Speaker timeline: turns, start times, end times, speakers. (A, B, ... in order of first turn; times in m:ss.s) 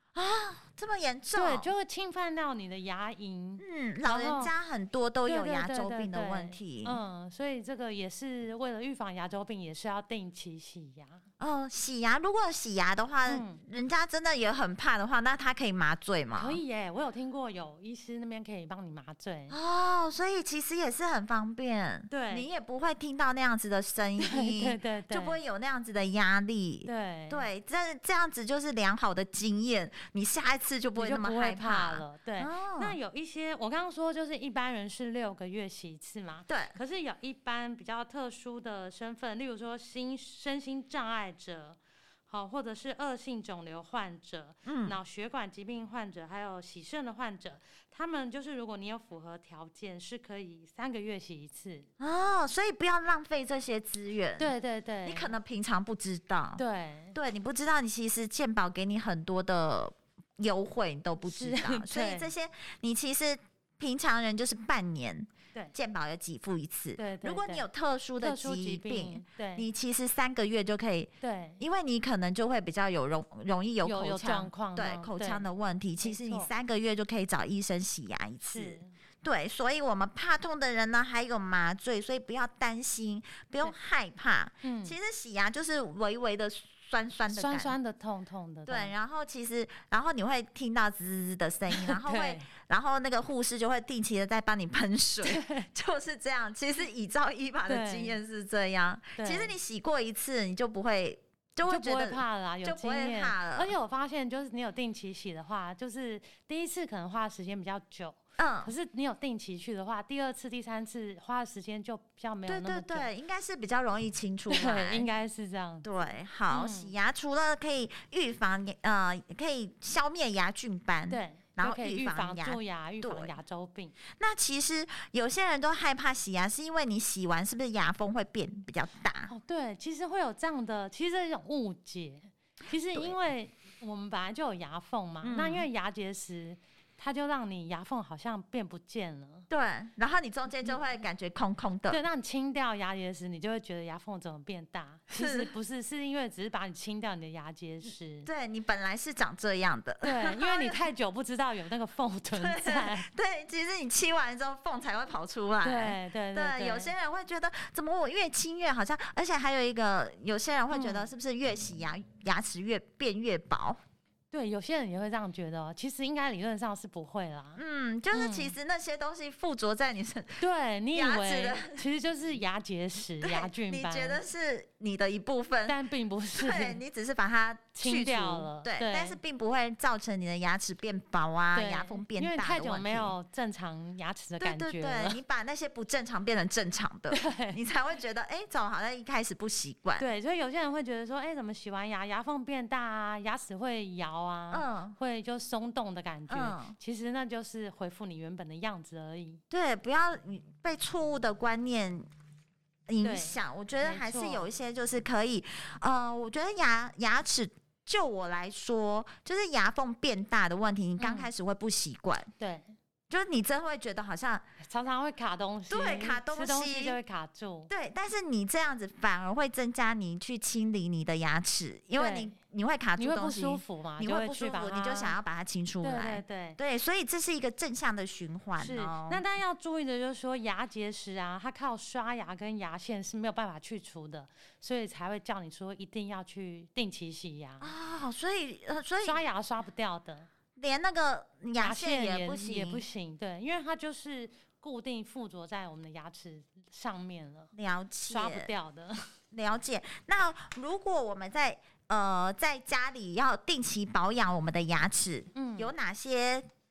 0:00.1-0:01.7 A
0:01.3-0:04.5 B
0:03.6-0:07.0 A
0:05.3-0:11.2 B
0:11.4-0:16.6 A
0:13.2-0:13.6 B
0:16.3-0:19.6 B
0:19.5-0:33.0 A
0:22.1-0:22.5 B
0:24.2-0:25.4 B
0:26.8-0:27.4 B
0:31.0-0:51.9 B
0:36.5-0:36.8 A
0:44.6-0:45.0 A
0:52.0-0:54.5 A
0:54.4-0:55.4 B
0:55.0-0:56.6 A
0:56.6-0:57.2 B
0:57.1-1:27.7 A
1:01.2-1:02.3 B
1:07.0-1:07.6 B
1:08.2-1:09.6 B
1:11.2-1:11.6 B
1:13.8-1:15.4 B
1:16.0-1:16.5 B
1:18.4-1:18.9 B
1:24.6-1:25.0 B
1:27.3-1:28.9 B
1:28.7-1:43.7 A
1:31.7-1:32.5 B
1:35.2-1:35.7 B
1:37.7-1:38.2 B
1:39.2-1:39.5 B
1:41.7-1:53.1 B
1:48.4-1:48.7 A
1:52.5-1:55.1 A
1:54.5-1:55.9 B
1:55.8-2:03.4 A
1:56.5-1:56.9 B
2:01.1-2:04.0 B
2:04.1-2:09.3 A
2:09.3-2:19.5 B
2:15.2-2:15.6 A
2:19.5-2:22.0 A
2:21.9-2:28.3 B
2:25.1-2:25.5 A
2:28.2-2:30.8 A
2:30.0-2:33.1 B
2:32.3-2:43.8 A
2:35.6-2:36.9 B
2:40.7-2:41.1 B
2:44.3-2:47.6 B
2:47.6-2:50.4 A
2:48.1-2:48.5 B
2:50.4-2:54.2 B
2:50.9-2:51.8 A
2:53.2-2:55.8 A
2:55.6-2:56.8 B
2:56.4-3:03.2 A
2:57.8-2:59.2 B
3:01.5-3:05.2 B
3:04.4-3:10.0 A
3:07.1-3:07.6 B
3:10.0-3:19.4 B
3:14.5-3:15.0 A
3:16.3-3:16.8 A
3:19.5-3:22.1 A
3:22.9-3:32.3 A
3:23.0-3:24.4 B
3:31.0-3:31.3 B
3:32.4-3:32.7 B
3:33.1-3:34.4 A
3:34.6-3:37.7 B
3:35.7-3:37.0 A
3:37.7-3:49.2 A
3:42.0-3:42.3 B
3:43.0-3:45.2 B
3:45.8-3:46.6 B
3:48.6-3:57.7 B
3:57.6-3:59.2 A
3:59.0-4:00.3 B
4:00.6-4:02.8 A
4:01.6-4:07.5 B
4:07.5-4:08.5 A
4:08.1-4:09.1 B
4:09.3-4:16.4 A
4:15.3-4:15.7 B